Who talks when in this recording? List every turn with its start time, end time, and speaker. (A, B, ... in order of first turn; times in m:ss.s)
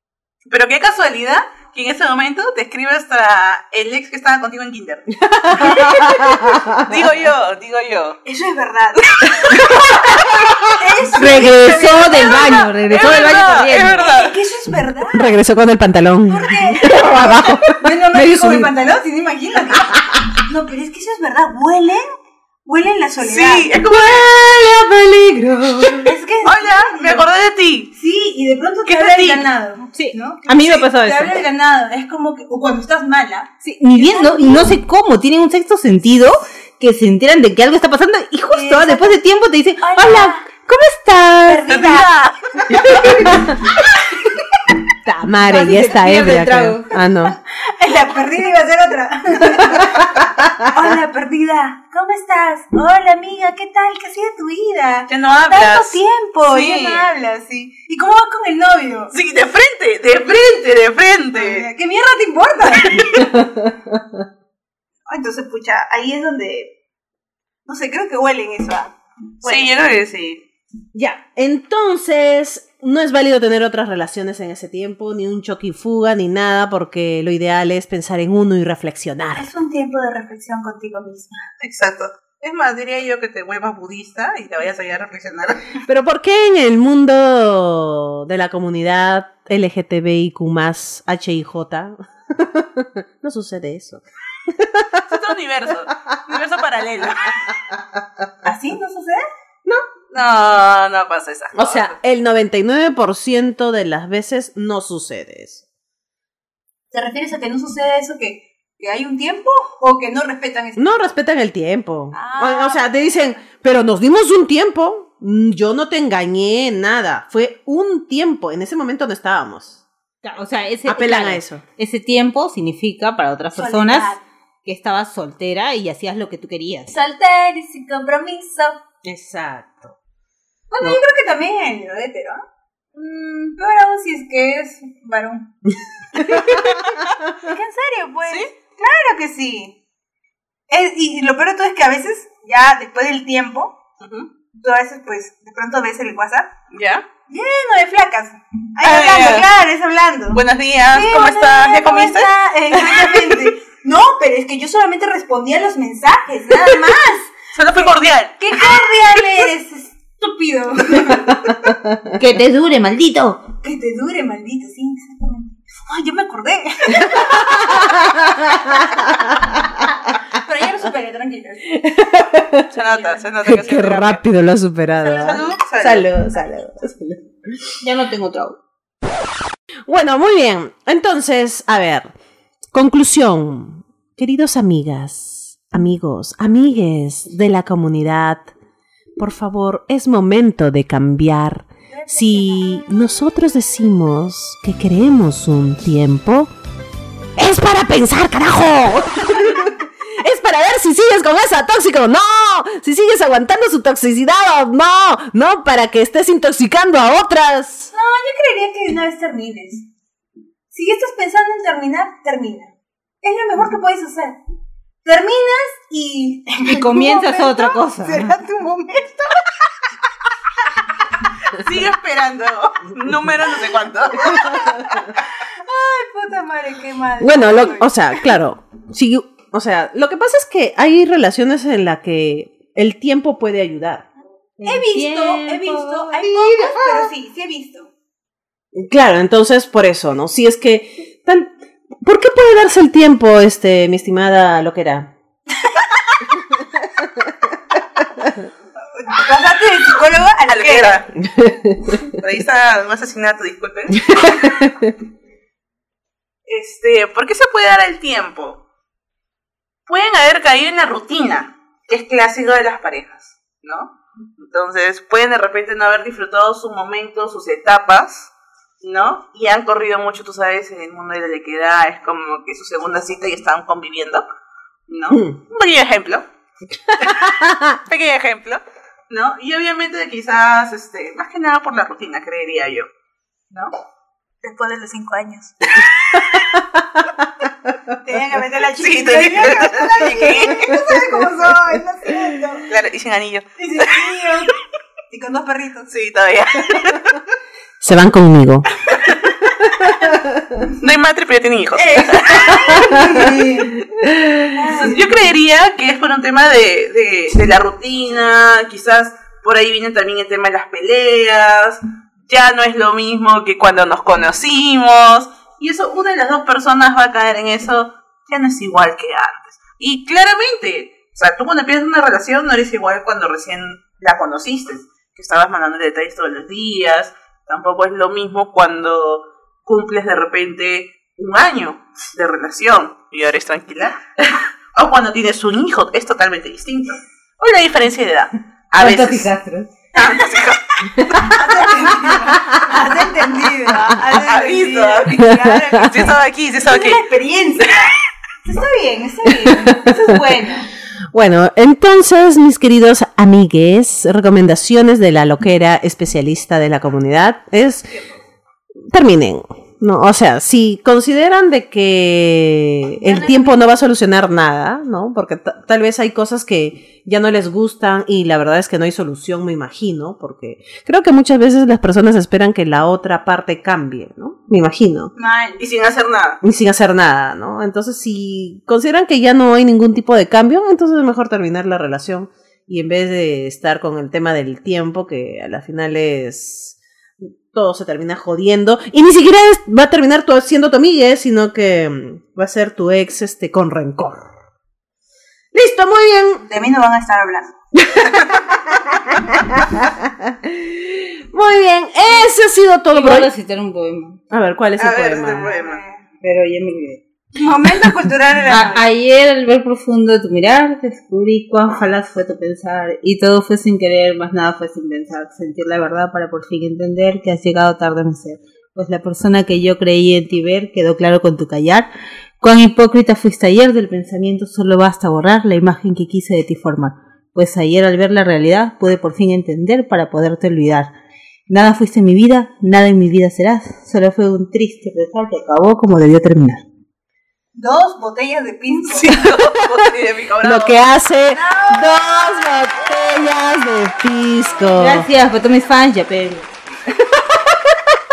0:00.5-0:08.2 A
0:05.3-0:06.9 B
0:08.2-0:09.9 C
0:09.1-0:10.2 A
0:10.0-0:10.6 B
0:10.7-0:12.7 C
0:11.1-0:14.0 D
0:11.2-0:11.9 B
0:12.3-0:14.4 A
0:13.9-0:15.3 C
0:15.1-0:18.7 B
0:16.3-0:22.0 C
0:22.6-0:23.7 C
0:23.2-0:24.4 A
0:24.0-0:26.1 D
0:26.0-0:27.3 C
0:26.4-0:27.9 A
0:27.9-0:34.8 C
0:28.9-0:29.5 A
0:29.9-0:31.4 D
0:33.6-0:41.9 D
0:38.5-0:39.2 C
0:39.8-0:40.5 C
0:41.5-0:43.9 C
0:41.7-0:42.4 A
0:45.0-0:47.4 B
0:45.4-0:46.9 D
0:47.3-0:59.1 C
0:55.1-0:57.1 A
0:59.1-1:01.7 A
1:01.3-1:03.4 C
1:03.2-1:04.0 B
1:05.1-1:06.7 C
1:07.7-1:09.7 C
1:09.4-1:10.4 A
1:10.9-1:19.5 B
1:19.4-1:21.4 C
1:21.6-1:25.7 A
1:25.9-1:35.1 B
1:35.1-1:37.5 A
1:38.4-1:39.2 C
1:40.1-1:42.0 A
1:41.5-1:45.6 B
1:46.9-1:51.1 C
1:50.8-1:59.8 B
1:52.1-1:53.1 C
2:00.2-2:06.9 D
2:00.9-2:01.6 B
2:03.6-2:04.2 C
2:06.9-2:08.8 C
2:09.0-2:10.0 B
2:10.7-2:12.4 C
2:12.9-2:15.5 C
2:16.2-2:16.6 B
2:17.4-2:19.8 C
2:20.7-2:23.8 C
2:24.0-2:24.3 A
2:24.5-2:26.5 C
2:26.7-2:27.1 A
2:27.3-2:37.3 C
2:28.8-2:29.5 A
2:30.3-2:33.5 A
2:37.5-2:38.4 A
2:38.4-2:41.7 C
2:41.6-2:42.1 B
2:42.2-2:43.4 D
2:43.6-2:49.3 C
2:47.3-2:49.0 B
2:50.1-2:51.8 C
2:51.8-2:52.7 B
2:52.7-2:54.2 A
2:52.9-2:53.2 C
2:53.4-2:57.2 B
2:55.0-2:56.1 A
2:57.8-2:58.6 D
2:59.9-3:02.1 B
3:02.7-3:08.5 B
3:09.2-3:16.5 B
3:11.9-3:12.8 C
3:17.4-3:27.9 B
3:27.9-3:29.8 C
3:30.7-3:34.4 C
3:35.0-3:39.6 C
3:36.6-3:38.4 D
3:41.5-3:44.7 A
3:44.2-3:48.3 C
3:47.2-3:54.1 B
3:54.6-3:57.1 D
3:54.6-3:57.9 C
3:58.8-4:05.1 B
4:09.0-4:11.0 C
4:10.5-4:11.1 A
4:11.2-4:12.0 B
4:12.1-4:14.4 A
4:14.1-4:14.9 B
4:16.5-4:18.6 A
4:19.9-4:34.2 A
4:34.9-4:36.2 A
4:37.0-4:37.8 B
4:37.9-4:42.9 A
4:44.4-4:45.8 C
4:48.0-4:52.7 C
4:48.8-4:50.7 A
4:52.7-4:54.1 A
4:53.6-4:54.5 C
4:55.1-4:55.9 C
4:55.9-4:57.2 A
4:57.8-4:58.7 B
4:59.1-4:59.5 A
5:00.6-5:02.6 A
5:01.8-5:03.9 C
5:02.8-5:03.4 B
5:04.1-5:04.4 B
5:04.5-5:05.1 C
5:04.7-5:39.3 A
5:38.8-5:39.7 D
5:40.0-5:41.3 A
5:41.2-5:50.7 C
5:44.1-5:45.3 A
5:45.8-5:47.0 A
5:49.5-5:50.2 B
5:51.1-5:58.0 B
5:58.9-6:15.1 B
6:03.0-6:03.6 C
6:15.2-6:15.6 C
6:15.6-6:16.4 A
6:16.4-6:34.3 B
6:35.5-6:36.4 B
6:36.5-6:37.5 C
6:37.8-6:43.3 B
6:42.9-6:44.2 D
6:44.3-6:45.6 B
6:44.8-6:45.8 A
6:45.2-6:46.0 C
6:46.2-6:47.0 D
6:47.4-6:48.9 C
6:48.5-7:01.9 D
7:02.4-7:10.9 D
7:11.5-7:16.6 D
7:17.6-7:19.1 C
7:18.9-7:20.8 A
7:20.4-7:25.1 B
7:21.3-7:22.4 C
7:24.8-7:26.5 D
7:27.3-7:28.0 B